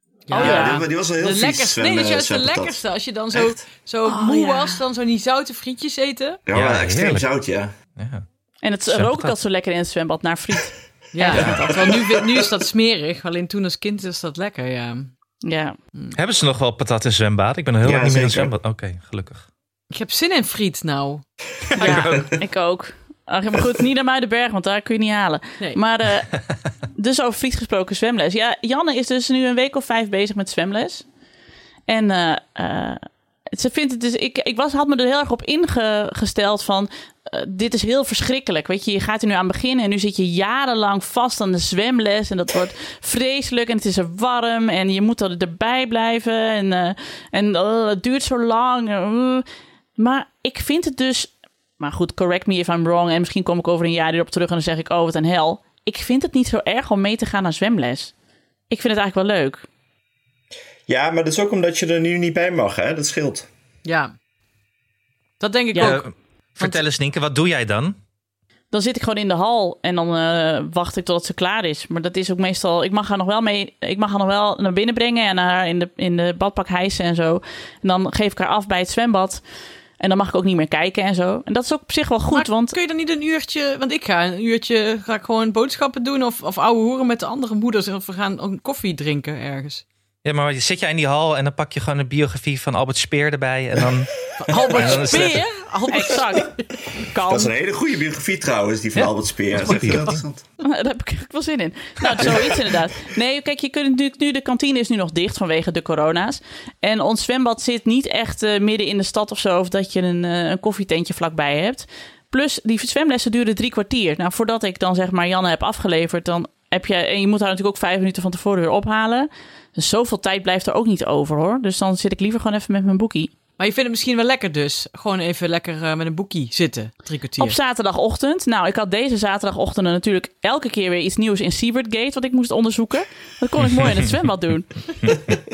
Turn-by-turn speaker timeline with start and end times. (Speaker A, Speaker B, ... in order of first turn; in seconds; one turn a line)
Speaker A: 0.3-6.4
Speaker B: 0.3-0.8
Speaker C: 0.3-2.8
Speaker B: 4.1-4.8
Speaker C: 6.5-7.7
Speaker D: 6.5-7.3
Speaker D: 8.0-8.2
Speaker B: 8.6-12.1
Speaker D: 8.9-9.3
Speaker A: 11.1-15.1
Speaker D: 11.3-11.6
Speaker B: 15.4-15.8
Speaker D: 16.1-19.5
Speaker C: 17.8-18.5
Speaker A: 19.9-21.2
Speaker D: 21.7-22.3
Speaker B: 21.8-26.4
Speaker B: 26.9-31.1
Speaker B: 31.9-49.5
Speaker B: 50.0-58.1
Speaker B: 58.7-59.7
Speaker C: 60.9-63.5
Speaker A: 63.9-64.1
Speaker A: 65.4-66.0
Speaker D: 65.8-68.0
Speaker B: 68.7-79.4
Speaker B: 80.0-82.8
Speaker A: 82.3-89.8
Speaker D: 90.2-95.5
Speaker A: 94.4-96.7
Speaker B: 95.9-96.5
Speaker B: 97.1-97.5
Speaker C: 97.2-100.4
Speaker D: 99.0-100.2
Speaker B: 100.6-123.3
Speaker C: 102.2-102.5
Speaker A: 123.6-127.6
Speaker B: 127.4-135.2
Speaker D: 133.8-134.1